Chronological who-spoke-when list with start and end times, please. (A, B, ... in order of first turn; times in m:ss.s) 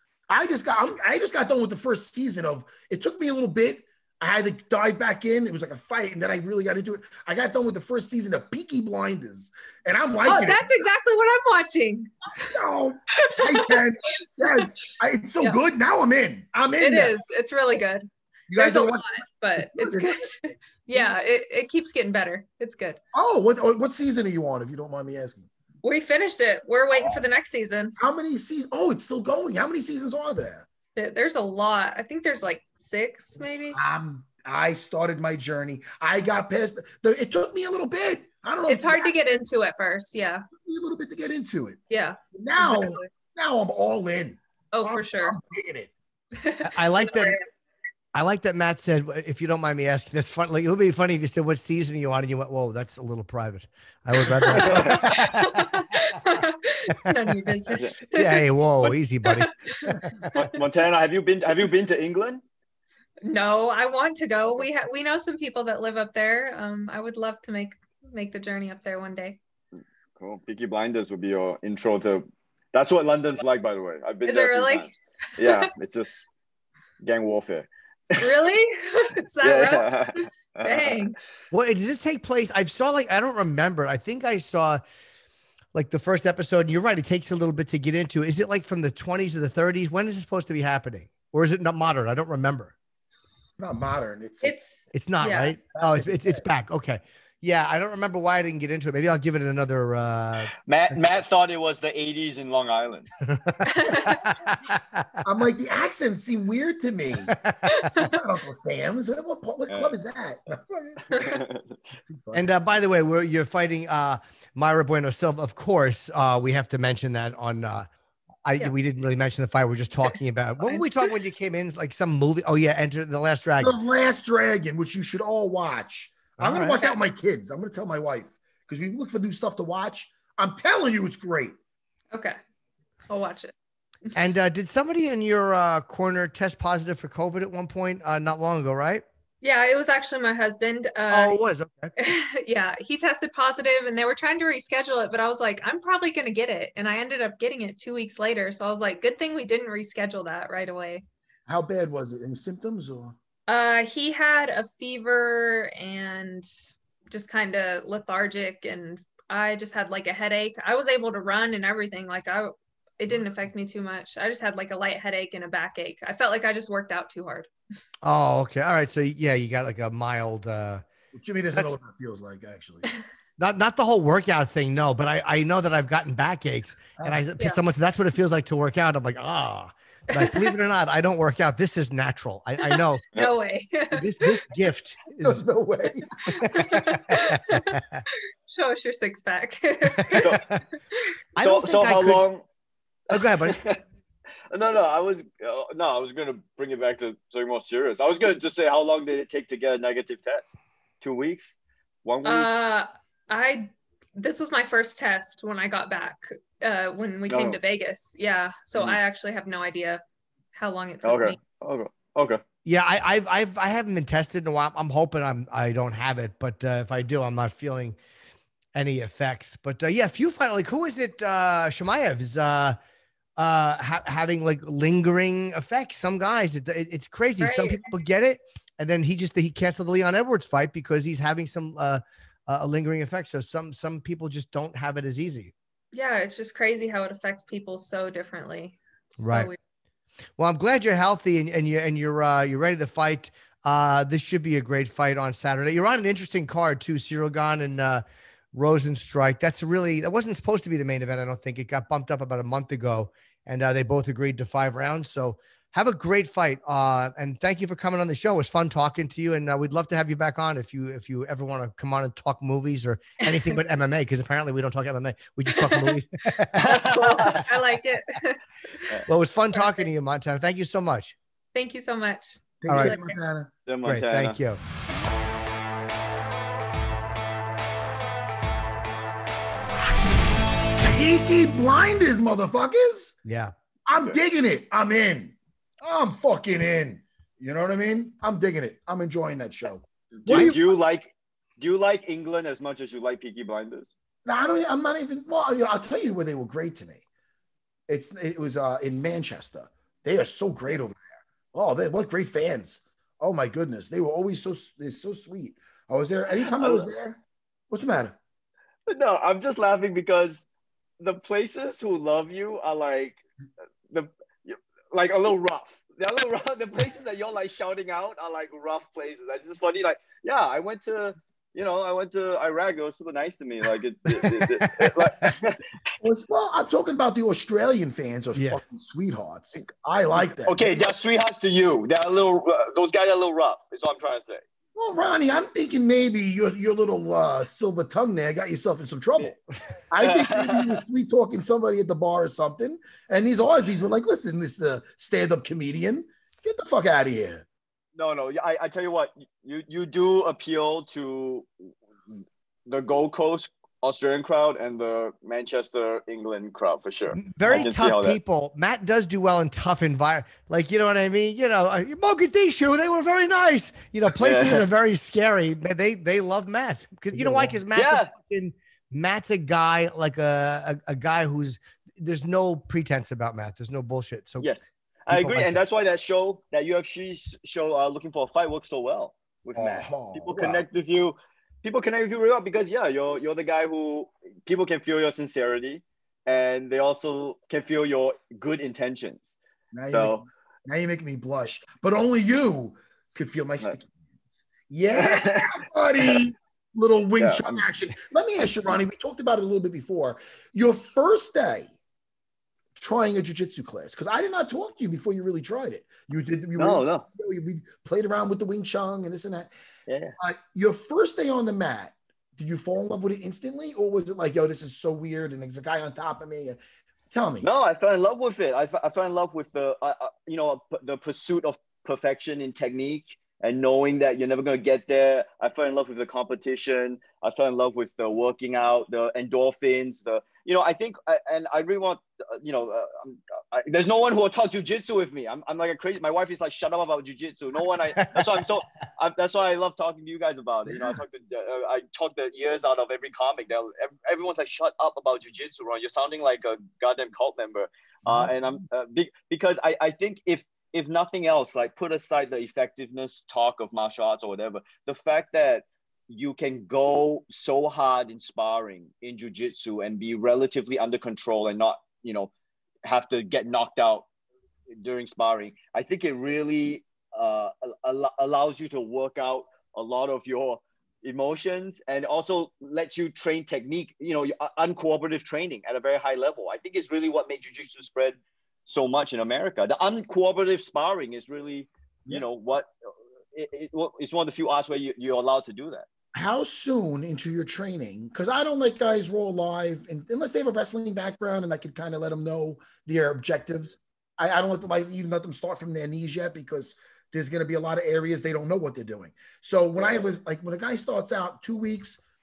0:00.3-0:10.8 A
0:10.2-0:12.5 B
0:12.5-0:17.2 A
0:13.1-0:13.8 B
0:16.8-0:23.0 B
0:18.5-0:19.0 A
0:19.6-0:21.1 A
0:23.1-0:25.5 A
0:25.8-0:28.0 B
0:28.0-0:30.7 A
0:31.0-0:33.8 B
0:33.7-0:39.2 A
0:38.7-0:40.5 B
0:40.5-0:41.8 A
0:41.9-0:43.1 B
0:42.3-0:45.9 A
0:44.7-0:45.4 B
0:46.4-0:47.4 B
0:46.6-0:47.4 C
0:48.1-0:56.2 C
0:54.5-0:58.4 B
0:54.6-0:55.0 D
0:57.0-0:57.3 C
0:57.8-0:58.0 D
0:58.1-0:59.5 C
0:59.2-0:59.9 B
1:00.4-1:02.4 D
1:03.2-1:09.4 B
1:10.2-1:16.2 D
1:14.2-1:15.7 B
1:17.0-1:18.4 D
1:18.2-1:21.2 B
1:19.4-1:21.0 D
1:21.5-1:24.8 C
1:25.7-1:32.7 C
1:33.6-1:34.6 A
1:34.4-1:35.6 B
1:34.9-1:40.9 C
1:35.8-1:36.4 A
1:40.7-1:43.1 D
1:43.3-1:45.1 C
1:43.6-1:44.3 B
1:45.2-1:47.4 A
1:47.3-1:47.9 C
1:47.8-1:48.1 B
1:48.0-1:51.4 A
1:49.7-1:49.9 D
1:51.3-1:51.6 D
1:51.9-1:52.5 A
1:52.3-1:57.9 C
1:58.4-2:03.7 C
2:00.6-2:01.1 B
2:03.6-2:11.6 A
2:06.4-2:06.9 C
2:12.1-2:12.4 B
2:13.1-2:13.5 B
2:14.2-2:19.0 C
2:19.4-2:21.4 B
2:21.1-2:21.9 C
2:22.0-2:31.0 B
2:31.5-2:33.2 A
2:33.5-2:36.5 B
2:37.1-2:47.5 B
2:48.0-2:50.8 C
2:51.1-2:52.8 A
2:53.4-3:03.0 C
2:57.0-2:57.3 A
3:00.1-3:00.5 B
3:02.6-3:04.3 B
3:03.9-3:05.4 C
3:05.2-3:06.1 A
3:06.3-3:08.0 C
3:06.4-3:07.8 B
3:08.5-3:10.3 B
3:09.9-3:10.6 C
3:11.4-3:12.2 C
3:11.4-3:12.4 D
3:13.1-3:13.6 C
3:13.2-3:13.8 D
3:14.5-3:22.5 D
3:22.2-3:30.0 B
3:27.3-3:27.6 D
3:30.5-3:31.4 B
3:31.0-3:32.4 D
3:32.6-3:38.0 C
3:38.7-3:42.8 C
3:43.4-3:55.5 C
3:47.4-3:47.9 B
3:55.9-3:59.6 B
3:59.2-3:59.5 C
4:00.4-4:27.5 C
4:25.6-4:25.9 B
4:26.6-4:29.0 B
4:26.6-4:27.3 D
4:29.1-4:31.2 C
4:31.6-4:33.2 B
4:32.6-4:33.5 A
4:32.7-4:33.0 C
4:33.7-4:34.4 D
4:33.8-4:34.6 C
4:40.8-4:43.2 A
4:43.2-4:43.5 C
4:43.9-4:50.7 A
4:50.2-4:53.9 D
4:54.3-4:57.0 A
4:57.9-5:08.2 A
5:06.4-5:06.9 D
5:08.9-5:10.5 D
5:11.0-5:13.2 D
5:13.9-5:25.6 D
5:24.1-5:25.4 C
5:26.0-5:30.8 A
5:28.4-5:28.6 C
5:30.4-5:34.4 D
5:34.8-5:39.4 A
5:39.9-5:47.4 A
5:40.0-5:40.8 D
5:48.0-5:51.5 D
5:52.7-5:58.2 D
5:57.1-6:14.5 C
6:04.2-6:04.6 D
6:07.2-6:07.6 A
6:07.7-6:08.1 D
6:14.4-6:29.2 D
6:15.1-6:15.6 C
6:19.6-6:20.6 A
6:29.7-6:33.9 A
6:29.9-6:30.2 D
6:34.7-6:41.7 A
6:34.9-6:35.5 D
6:37.2-6:37.6 D
6:42.8-6:49.5 A
6:46.6-6:47.0 D
6:49.9-6:50.2 D
6:50.2-6:57.5 A
6:57.4-7:42.3 D
7:18.0-7:18.2 C
7:42.8-7:44.1 D
7:44.7-8:02.7 D
8:03.3-8:05.9 D
8:06.1-8:22.0 A
8:19.8-8:20.0 D